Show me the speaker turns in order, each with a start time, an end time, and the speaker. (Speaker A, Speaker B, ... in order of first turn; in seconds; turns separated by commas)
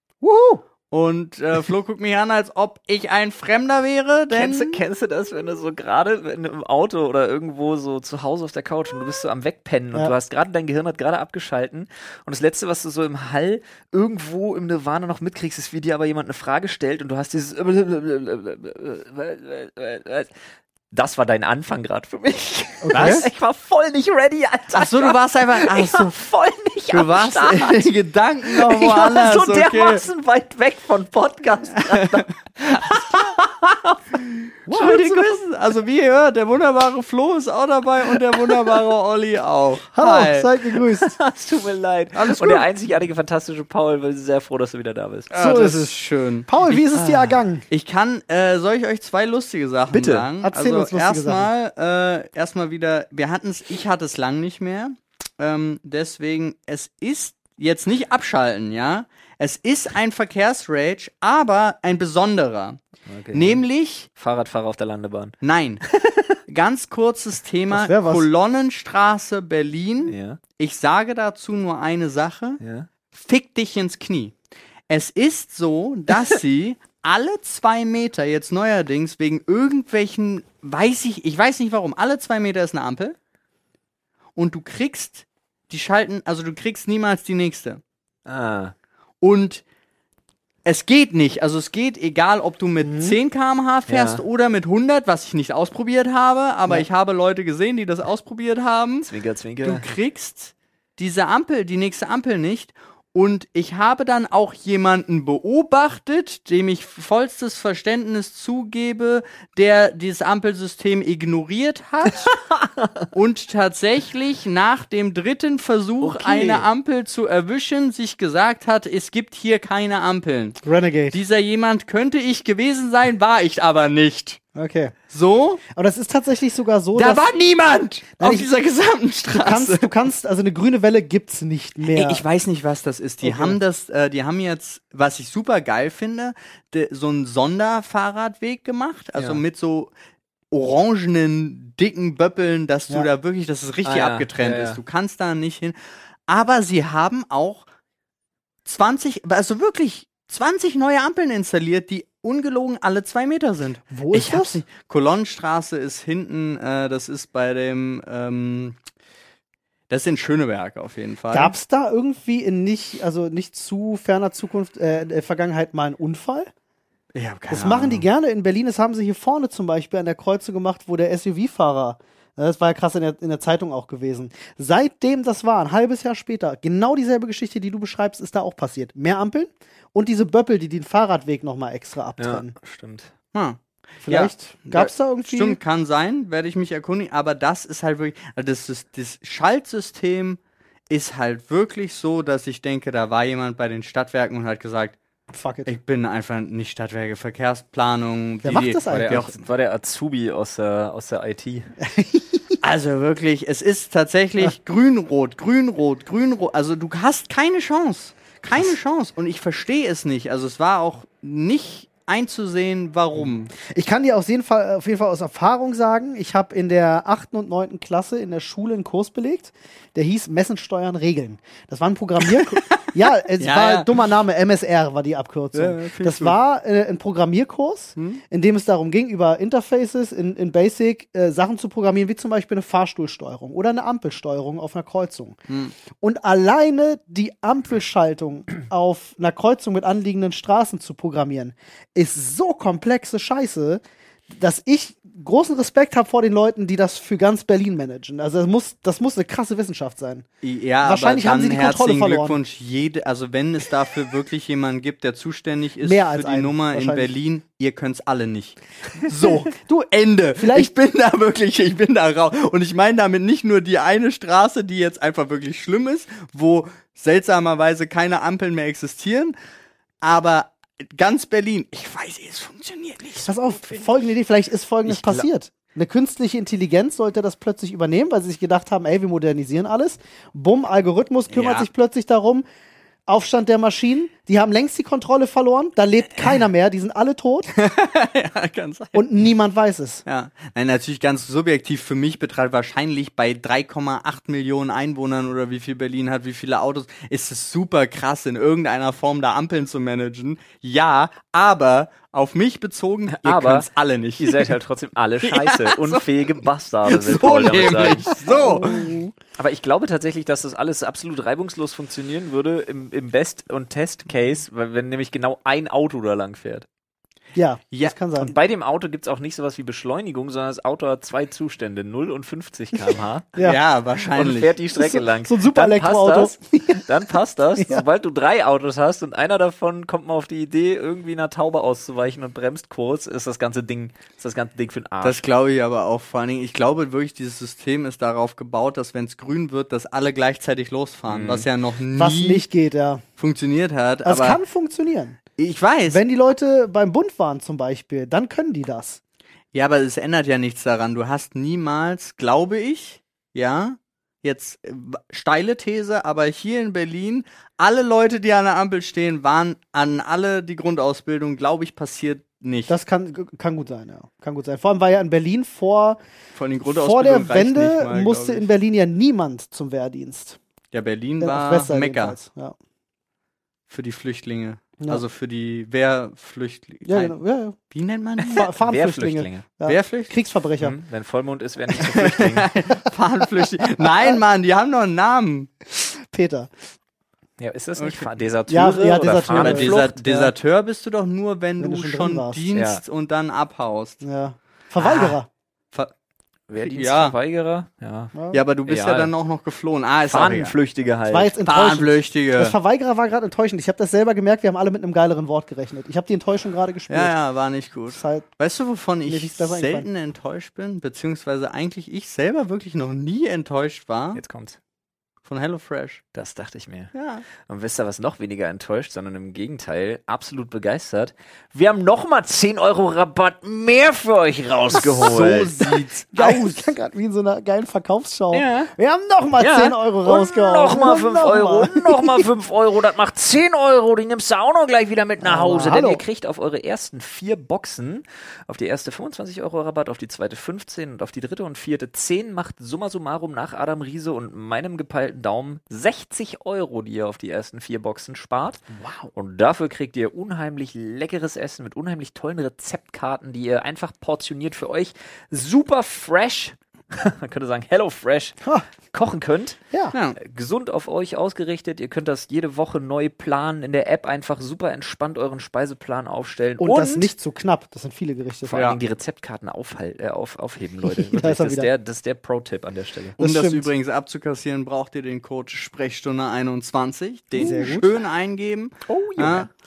Speaker A: 0.2-0.6, Speaker B: 0.9-4.8, Speaker C: 4.3-20.3, Speaker C: 20.9-27.9, Speaker A: 22.8-23.2, Speaker B: 22.9-23.3, Speaker B: 24.7-26.1, Speaker B: 26.9-30.1, Speaker C: 28.5-33.8, Speaker B: 31.9-32.2, Speaker C: 34.7-35.3, Speaker B: 34.7-40.5, Speaker A: 39.9-41.2, Speaker C: 41.1-45.3, Speaker B: 42.1-42.7, Speaker B: 45.3-46.5, Speaker A: 45.3-46.0, Speaker A: 46.5-47.6, Speaker C: 46.7-47.4, Speaker B: 47.7-64.1, Speaker A: 49.9-51.5, Speaker C: 63.1-63.6, Speaker C: 64.2-65.3, Speaker B: 65.4-65.8, Speaker C: 65.9-66.4, Speaker B: 66.5-72.6, Speaker A: 67.7-68.3, Speaker C: 70.1-70.4, Speaker C: 72.6-72.9, Speaker B: 73.1-74.3, Speaker B: 74.9-83.2, Speaker B: 84.4-87.8, Speaker C: 88.3-88.7, Speaker B: 89.2-89.6, Speaker B: 90.7-99.1, Speaker A: 92.8-93.2, Speaker C: 93.9-94.2, Speaker C: 99.1-99.9, Speaker B: 99.6-112.4, Speaker B: 113.1-120.6, Speaker C: 116.0-116.7, Speaker A: 120.6-121.2, Speaker B: 121.1-124.4, Speaker A: 124.5-124.9, Speaker B: 125.1-125.6, Speaker A: 125.7-127.2, Speaker B: 127.0-129.9, Speaker A: 128.2-128.5, Speaker A: 129.3-132.2, Speaker B: 131.8-139.9, Speaker A: 133.2-133.6, Speaker C: 139.2-139.4, Speaker B: 140.5-145.8, Speaker C: 143.8-144.8, Speaker B: 146.3-147.7, Speaker B: 148.7-158.8, Speaker A: 153.9-154.6, Speaker B: 159.9-161.6, Speaker A: 161.3-166.5, Speaker B: 167.1-168.1, Speaker A: 167.5-182.5, Speaker C: 182.2-183.1, Speaker B: 183.3-195.0, Speaker A: 184.1-185.6, Speaker A: 195.3-195.7, Speaker B: 195.7-199.4, Speaker A: 198.4-199.4, Speaker C: 198.9-201.7, Speaker A: 201.8-202.6, Speaker B: 202.6-213.5, Speaker A: 213.6-235.4, Speaker B: 222.4-223.9, Speaker B: 225.5-226.4, Speaker B: 235.5-235.7, Speaker A: 236.0-250.2, Speaker B: 250.4-269.4, Speaker A: 250.8-252.4, Speaker A: 255.8-257.1, Speaker A: 260.4-260.7, Speaker B: 270.0-273.9, Speaker A: 273.2-282.5, Speaker C: 274.9-275.3, Speaker B: 281.3-281.7, Speaker A: 283.1-287.5, Speaker B: 287.6-289.0, Speaker A: 288.9-290.0, Speaker B: 290.1-304.5, Speaker C: 303.1-303.7, Speaker C: 304.2-308.1, Speaker B: 305.2-306.1, Speaker B: 306.9-309.0, Speaker A: 308.1-309.1, Speaker C: 309.4-316.7, Speaker A: 317.4-318.3, Speaker C: 318.2-323.4, Speaker B: 323.4-324.6, Speaker C: 324.1-335.2, Speaker A: 324.8-326.9, Speaker A: 327.6-327.8, Speaker B: 335.0-342.4, Speaker C: 341.1-341.5, Speaker A: 342.0-343.0, Speaker B: 343.2-344.4, Speaker A: 344.1-345.2, Speaker B: 345.4-346.0, Speaker A: 345.9-349.0, Speaker B: 349.5-362.7, Speaker A: 362.7-366.0, Speaker B: 366.4-368.5, Speaker A: 366.6-370.4, Speaker B: 370.7-372.2, Speaker A: 371.2-372.6, Speaker B: 373.7-377.2, Speaker A: 376.9-377.6, Speaker B: 377.7-378.5, Speaker A: 378.3-380.8, Speaker C: 378.3-379.4, Speaker B: 379.7-380.1, Speaker C: 380.6-382.6, Speaker B: 381.7-385.5, Speaker A: 385.8-386.5, Speaker C: 387.4-389.9, Speaker B: 387.8-388.1, Speaker A: 388.5-390.3, Speaker B: 389.3-394.0, Speaker A: 391.6-392.4, Speaker C: 392.5-392.8, Speaker A: 394.0-395.3, Speaker B: 394.8-395.2, Speaker C: 396.5-398.1, Speaker B: 396.6-397.2, Speaker A: 398.1-398.4, Speaker B: 398.3-400.6, Speaker C: 398.7-399.1, Speaker C: 400.1-401.4, Speaker A: 401.1-407.1, Speaker B: 401.5-402.6, Speaker B: 406.9-414.2, Speaker A: 407.9-408.2, Speaker A: 409.1-409.9, Speaker C: 414.1-414.6, Speaker B: 415.2-416.0, Speaker C: 416.1-416.9, Speaker B: 416.9-417.3, Speaker C: 417.5-425.7, Speaker B: 424.8-426.6, Speaker A: 426.1-432.2, Speaker C: 428.3-428.7, Speaker C: 429.4-458.4, Speaker A: 435.2-436.0, Speaker C: 458.9-459.6, Speaker C: 460.2-467.1, Speaker A: 466.6-468.6, Speaker C: 468.5-473.2, Speaker B: 468.5-468.8, Speaker A: 470.8-471.7, Speaker A: 473.2-473.7, Speaker B: 473.2-479.5, Speaker C: 477.3-478.0, Speaker A: 477.4-477.9, Speaker C: 478.9-479.5